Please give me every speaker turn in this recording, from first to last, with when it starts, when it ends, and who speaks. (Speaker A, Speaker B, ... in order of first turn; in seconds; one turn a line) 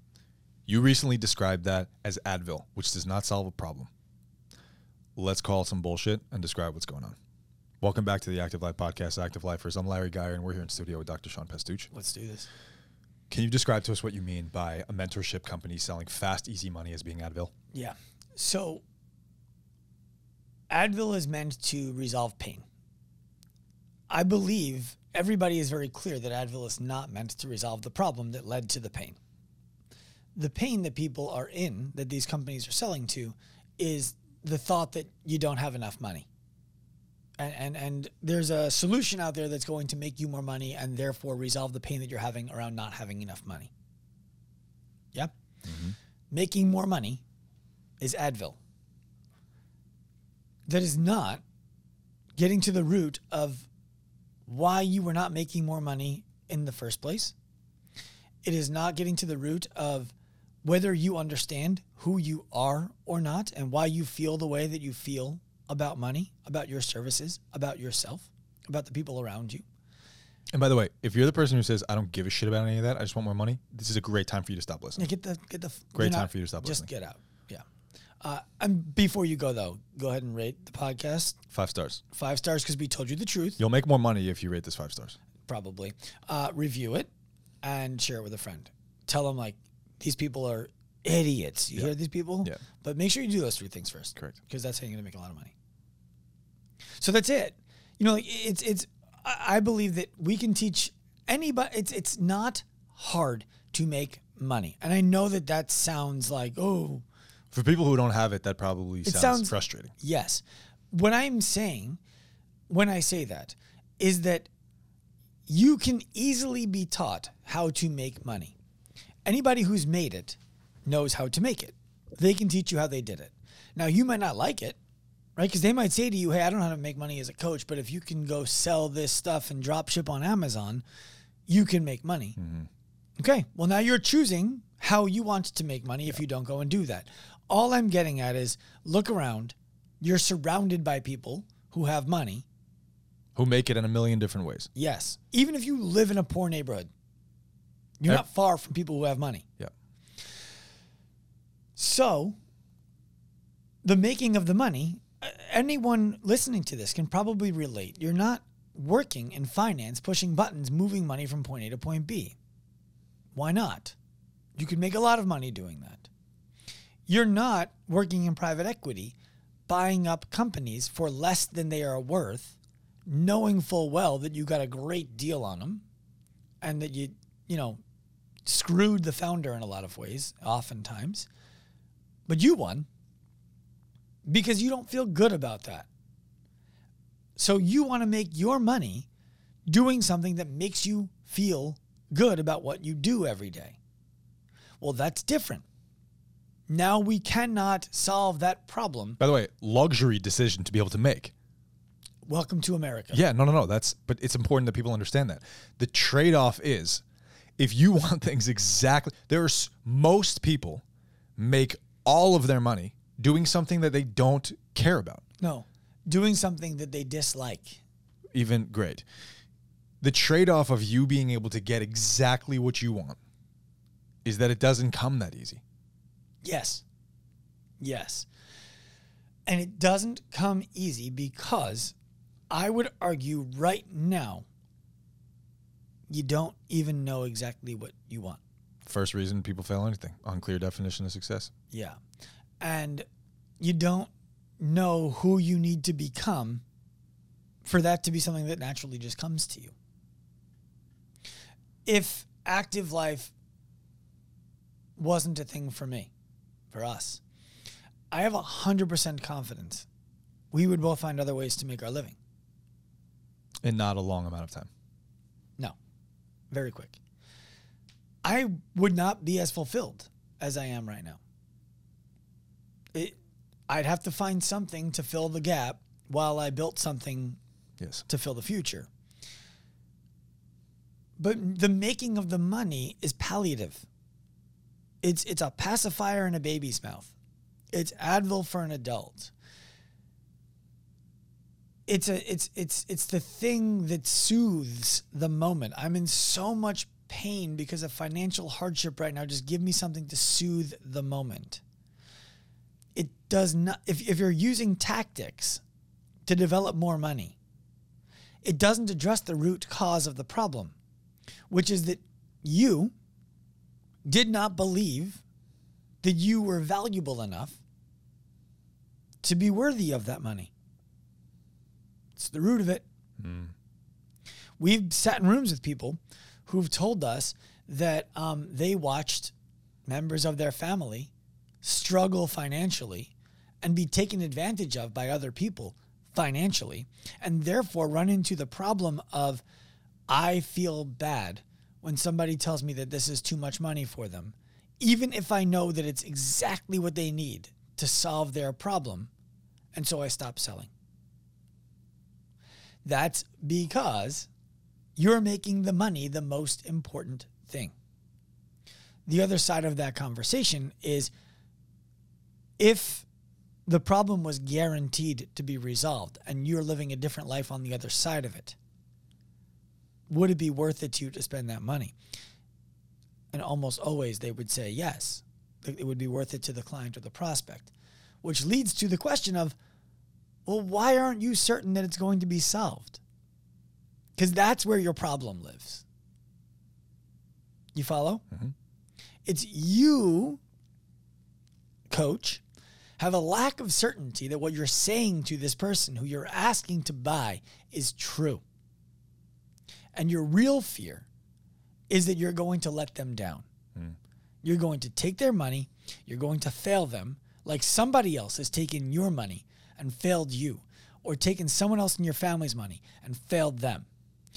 Speaker A: 0.7-3.9
Speaker A: 5.2-7.2
Speaker A: 7.8-11.9
Speaker B: 11.9-12.5
Speaker A: 13.3-17.5
Speaker B: 17.7-18.8
Speaker B: 20.7-22.6
Speaker B: 24.1-29.2
Speaker B: 30.3-36.3
Speaker B: 37.4-43.7
Speaker A: 45.6-46.0
Speaker B: 46.3-47.2
Speaker B: 48.0-48.6
Speaker B: 50.6-51.4
Speaker B: 52.4-53.7
Speaker B: 54.5-57.3
Speaker B: 58.4-69.6
Speaker A: 70.5-75.1
Speaker B: 75.0-77.6
Speaker A: 76.0-76.9
Speaker B: 78.2-81.4
Speaker A: 81.5-82.0
Speaker B: 82.1-83.6
Speaker A: 83.6-85.2
Speaker B: 85.5-87.1
Speaker B: 87.6-95.5
Speaker A: 91.8-92.6
Speaker B: 97.0-107.0
Speaker A: 107.5-109.9
Speaker B: 109.0-112.0
Speaker B: 112.7-114.5
Speaker B: 115.5-118.5
Speaker B: 119.2-124.8
Speaker B: 125.4-130.8
Speaker B: 131.5-132.4
Speaker A: 132.4-132.7
Speaker B: 133.2-142.4
Speaker A: 143.3-144.7
Speaker B: 144.8-146.9
Speaker B: 148.0-149.4
Speaker B: 151.8-152.3
Speaker B: 153.8-162.3
Speaker B: 163.3-163.9
Speaker B: 164.6-166.1
Speaker B: 167.1-169.1
Speaker B: 169.7-172.6
Speaker B: 173.1-175.8
Speaker B: 176.6-177.8
Speaker B: 178.4-181.3
Speaker B: 182.3-182.8
Speaker B: 184.2-185.9
Speaker B: 187.4-189.1
Speaker B: 189.7-193.8
Speaker B: 194.8-195.6
Speaker B: 196.7-199.2
Speaker A: 199.2-201.3
Speaker B: 202.2-203.2
Speaker A: 203.1-207.0
Speaker A: 207.6-210.8
Speaker A: 211.4-215.2
Speaker B: 215.4-217.8
Speaker A: 218.3-219.0
Speaker A: 220.0-223.2
Speaker A: 224.2-225.6
Speaker B: 226.4-226.8
Speaker B: 227.8-228.3
Speaker B: 229.4-231.9
Speaker B: 232.5-234.4
Speaker B: 236.1-238.4
Speaker A: 238.8-241.5
Speaker B: 241.7-242.0
Speaker B: 242.6-243.1
Speaker B: 243.6-246.6
Speaker B: 247.6-249.7
Speaker B: 251.8-253.3
Speaker B: 255.0-256.1
Speaker B: 256.7-257.2
Speaker B: 258.1-259.9
Speaker B: 260.5-262.2
Speaker A: 263.6-264.7
Speaker B: 266.5-267.0
Speaker B: 268.2-271.2
Speaker B: 273.7-277.4
Speaker A: 277.8-278.1
Speaker B: 278.1-278.9
Speaker B: 281.2-283.9
Speaker B: 285.0-287.1
Speaker B: 287.7-289.3
Speaker B: 291.9-301.6
Speaker B: 302.9-305.6
Speaker B: 306.2-307.4
Speaker B: 308.4-310.7
Speaker B: 311.5-312.9
Speaker B: 314.1-315.2
Speaker B: 316.0-317.6
Speaker B: 319.2-320.5
Speaker B: 322.1-322.8
Speaker A: 323.2-323.5
Speaker B: 324.6-329.3
Speaker B: 329.9-339.4
Speaker B: 340.1-349.1
Speaker B: 349.7-350.7
Speaker B: 352.8-354.3
Speaker B: 354.9-357.7
Speaker B: 359.1-361.1
Speaker B: 362.6-363.0
Speaker B: 363.6-368.6
Speaker B: 370.1-371.9
Speaker B: 373.3-377.7
Speaker B: 378.2-379.6
Speaker B: 380.4-383.0
Speaker B: 384.2-385.8
Speaker B: 387.7-388.2
Speaker B: 389.2-390.4
Speaker B: 391.9-392.4
Speaker B: 393.0-398.4
Speaker B: 399.9-401.1
Speaker B: 401.9-403.4
Speaker B: 404.4-413.9